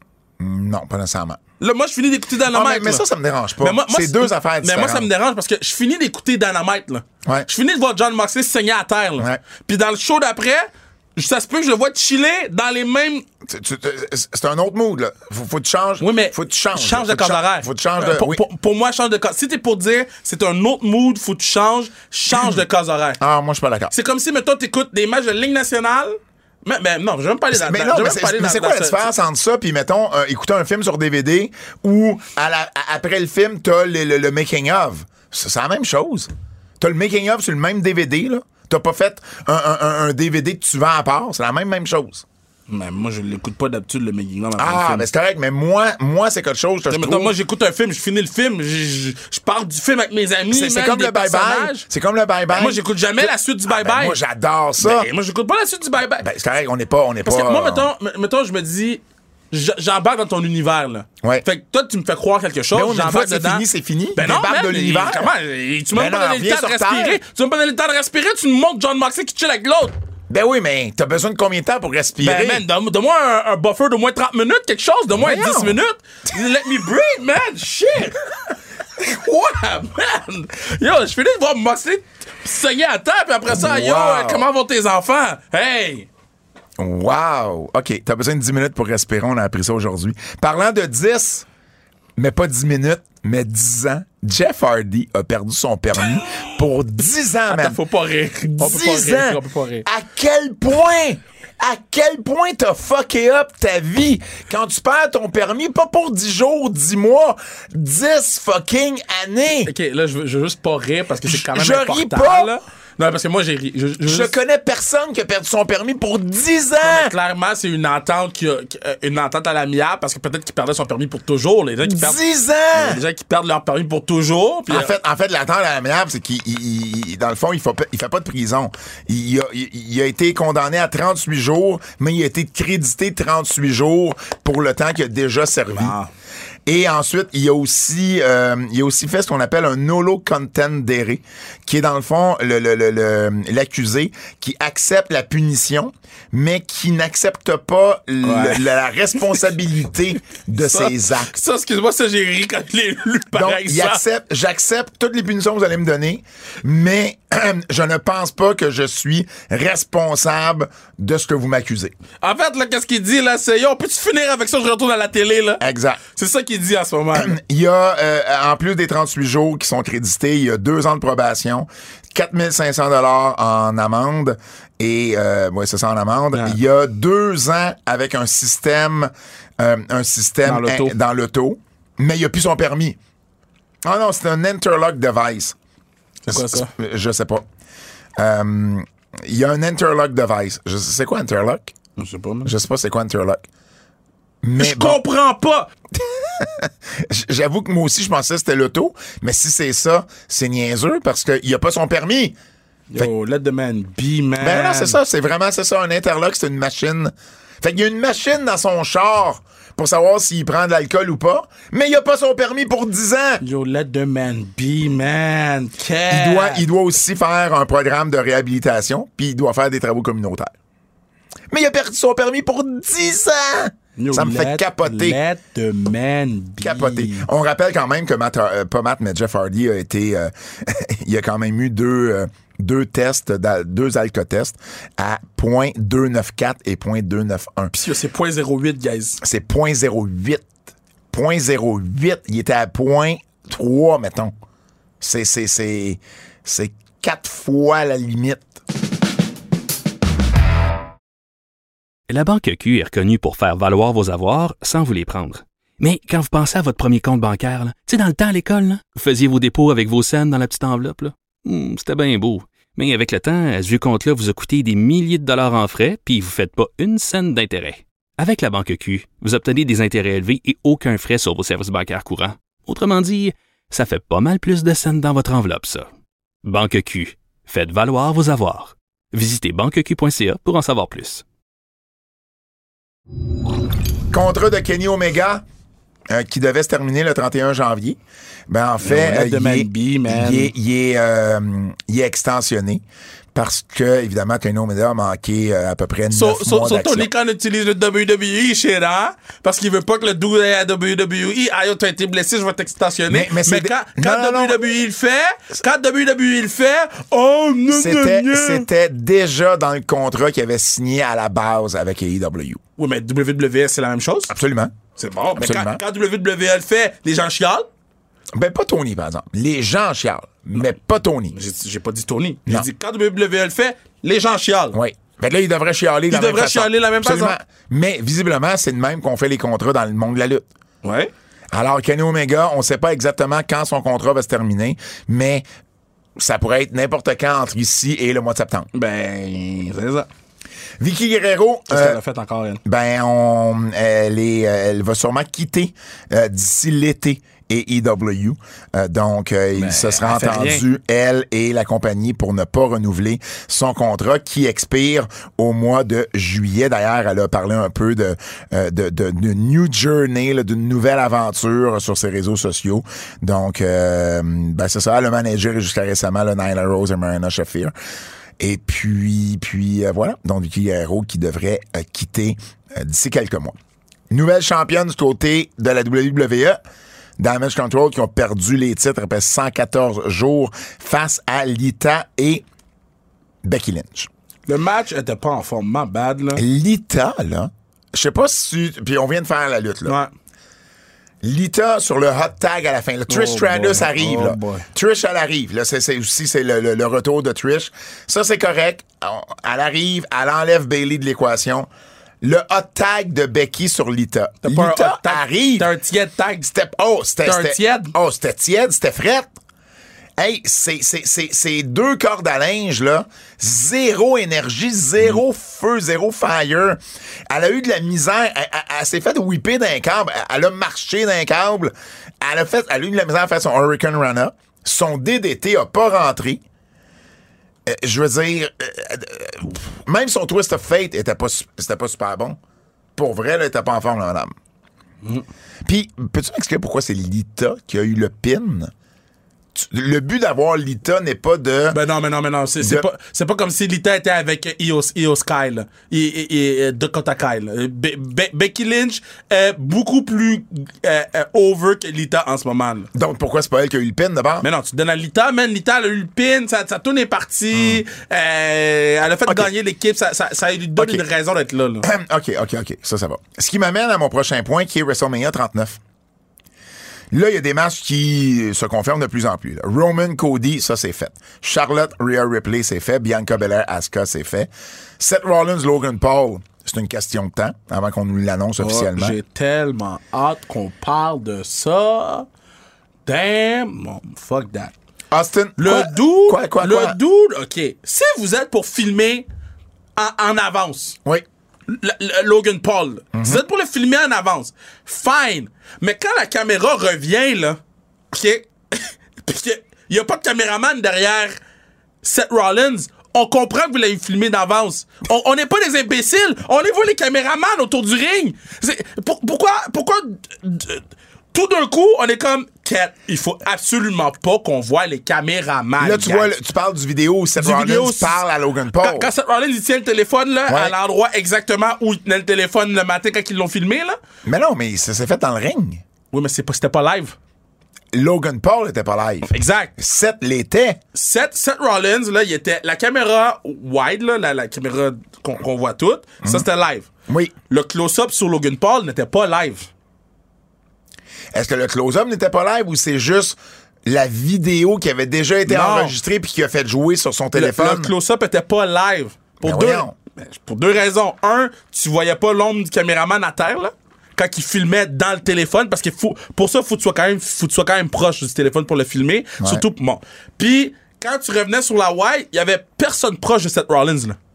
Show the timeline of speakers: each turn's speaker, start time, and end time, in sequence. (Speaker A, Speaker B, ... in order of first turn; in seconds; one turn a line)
Speaker A: 0.4-1.4
Speaker B: 1.6-3.0
Speaker A: 2.5-5.1
Speaker B: 3.6-13.2
Speaker A: 13.4-18.4
Speaker B: 16.0-23.2
Speaker A: 22.3-22.6
Speaker A: 23.2-23.9
Speaker B: 23.9-29.1
Speaker A: 27.5-36.3
Speaker A: 36.8-42.2
Speaker B: 42.7-45.1
Speaker A: 44.6-47.3
Speaker B: 46.9-51.9
Speaker A: 50.5-55.1
Speaker B: 52.5-54.2
Speaker B: 54.8-56.3
Speaker A: 56.2-57.9
Speaker B: 57.2-69.9
Speaker A: 62.7-65.3
Speaker A: 65.9-67.2
Speaker A: 70.3-72.6
Speaker B: 72.2-86.1
Speaker A: 75.1-75.8
Speaker A: 83.5-84.5
Speaker A: 86.8-91.5
Speaker A: 92.2-97.8
Speaker B: 97.5-99.9
Speaker A: 98.5-109.7
Speaker B: 109.6-114.3
Speaker A: 111.2-112.5
Speaker A: 114.0-117.1
Speaker B: 116.8-122.2
Speaker A: 121.8-123.0
Speaker B: 122.7-124.9
Speaker A: 124.7-135.9
Speaker B: 135.7-136.1
Speaker A: 136.7-151.3
Speaker B: 148.2-148.6
Speaker B: 150.6-154.0
Speaker A: 153.3-161.9
Speaker B: 162.2-165.6
Speaker A: 165.6-166.0
Speaker B: 166.1-167.4
Speaker A: 167.1-183.0
Speaker B: 176.3-176.6
Speaker B: 180.4-180.9
Speaker A: 183.8-185.6
Speaker B: 186.3-186.7
Speaker A: 186.3-187.4
Speaker A: 188.2-191.7
Speaker B: 192.0-192.5
Speaker A: 192.4-193.4
Speaker A: 194.4-195.0
Speaker B: 194.6-195.7
Speaker A: 195.9-202.3
Speaker B: 202.9-205.0
Speaker A: 204.4-213.4
Speaker B: 213.4-216.7
Speaker A: 216.1-220.5
Speaker A: 221.5-225.2
Speaker B: 224.0-227.3
Speaker A: 226.6-237.7
Speaker B: 237.7-239.2
Speaker A: 239.2-240.5
Speaker A: 241.1-244.3
Speaker A: 245.0-248.5
Speaker C: 252.1-275.9
Speaker C: 276.4-281.2
Speaker A: 284.1-285.4
Speaker A: 286.1-288.0
Speaker A: 288.5-292.8
Speaker B: 288.8-290.5
Speaker A: 293.3-297.1
Speaker B: 296.1-308.7
Speaker A: 303.1-304.6
Speaker A: 307.7-312.6
Speaker B: 312.8-314.3
Speaker A: 314.3-314.7
Speaker B: 315.0-317.7
Speaker A: 315.4-315.8
Speaker A: 318.3-321.4
Speaker B: 321.3-324.8
Speaker A: 324.7-330.5
Speaker B: 326.1-327.4
Speaker B: 330.8-331.1
Speaker A: 331.5-335.4
Speaker A: 336.2-338.7
Speaker B: 338.7-340.1
Speaker A: 340.8-342.0
Speaker B: 341.7-342.6
Speaker A: 342.6-367.7
Speaker B: 349.5-350.6
Speaker A: 368.4-373.6
Speaker A: 374.1-376.6
Speaker A: 377.2-382.4
Speaker A: 383.4-384.1
Speaker B: 384.5-386.4
Speaker A: 386.4-390.0
Speaker B: 389.9-390.1
Speaker A: 391.2-401.7
Speaker B: 393.1-394.7
Speaker A: 402.2-405.7
Speaker B: 404.4-406.5
Speaker A: 406.4-409.3
Speaker B: 407.2-407.9
Speaker A: 410.2-426.4
Speaker A: 427.6-432.4
Speaker A: 433.0-434.3
Speaker A: 435.6-438.7
Speaker A: 439.5-441.8
Speaker B: 441.7-452.9
Speaker A: 442.6-442.9
Speaker A: 452.9-454.5
Speaker B: 454.4-461.9
Speaker A: 457.5-457.8
Speaker A: 460.8-461.0
Speaker A: 461.8-465.8
Speaker A: 467.1-479.2
Speaker B: 478.6-482.3
Speaker B: 483.1-484.7
Speaker A: 485.1-487.0
Speaker B: 485.6-489.2
Speaker B: 490.0-491.0
Speaker B: 491.7-497.6
Speaker A: 493.1-493.4
Speaker B: 498.1-501.4
Speaker B: 502.0-516.3
Speaker A: 515.8-519.1
Speaker B: 517.4-518.2
Speaker B: 518.8-524.0
Speaker A: 520.5-520.8
Speaker A: 524.2-525.8
Speaker B: 526.1-527.1
Speaker A: 527.9-530.8
Speaker B: 529.2-529.7
Speaker B: 530.9-536.9
Speaker A: 537.1-537.3
Speaker B: 537.5-539.7
Speaker A: 541.3-547.9
Speaker B: 545.5-546.0
Speaker B: 547.3-564.2
Speaker A: 549.4-549.9
Speaker A: 559.4-559.6